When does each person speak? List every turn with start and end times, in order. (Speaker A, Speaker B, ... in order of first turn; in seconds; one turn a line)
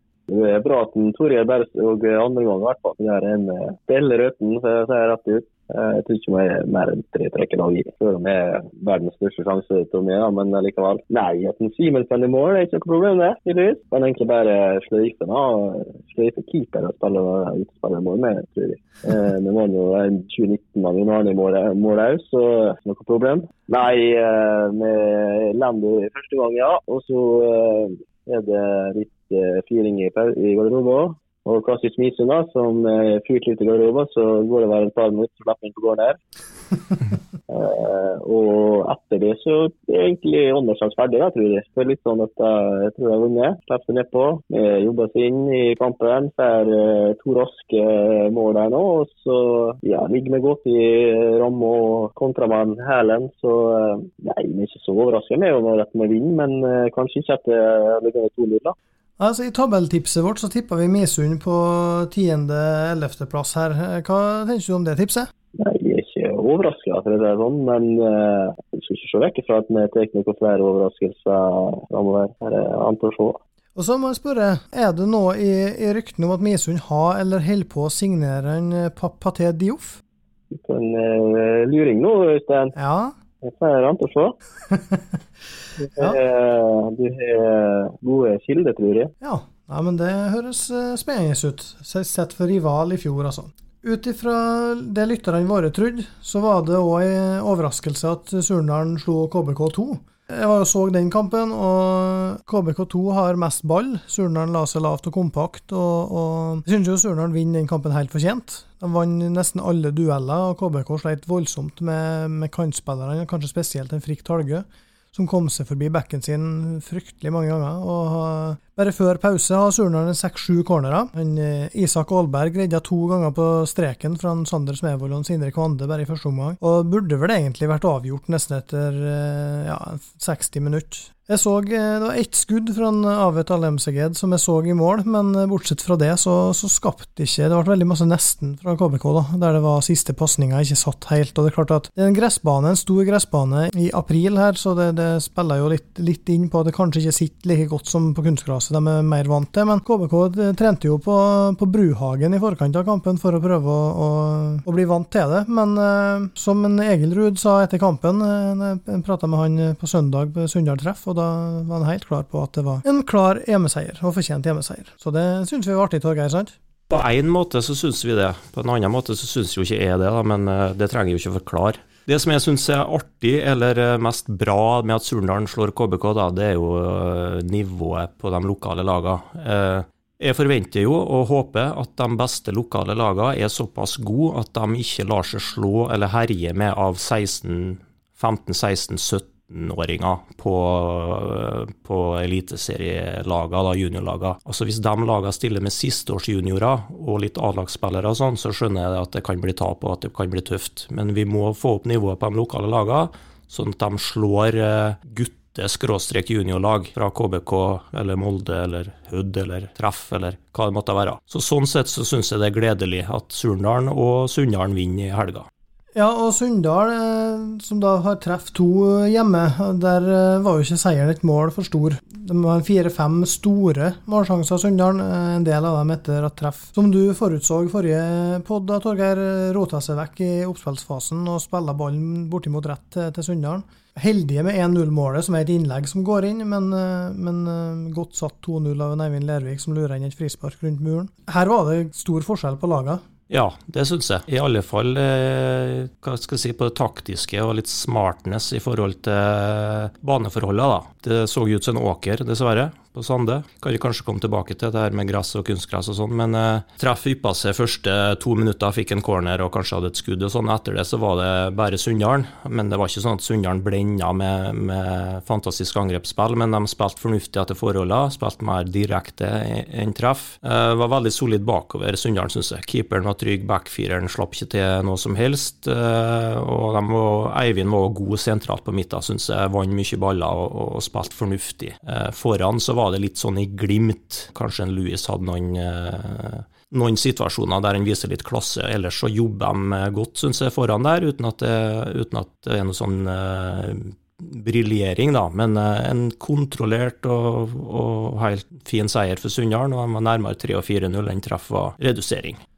Speaker A: 0.3-36.2
Speaker A: 37.5-58.8
Speaker B: 59.2-65.3
Speaker A: 65.5-73.4
Speaker B: 73.8-80.0
Speaker A: 80.5-82.8
Speaker B: 82.8-83.2
Speaker A: 83.4-84.4
Speaker B: 84.7-85.2
Speaker A: 85.8-89.1
Speaker B: 89.2-166.6
Speaker C: 166.9-215.5
Speaker B: 216.0-243.0
Speaker C: 243.3-302.4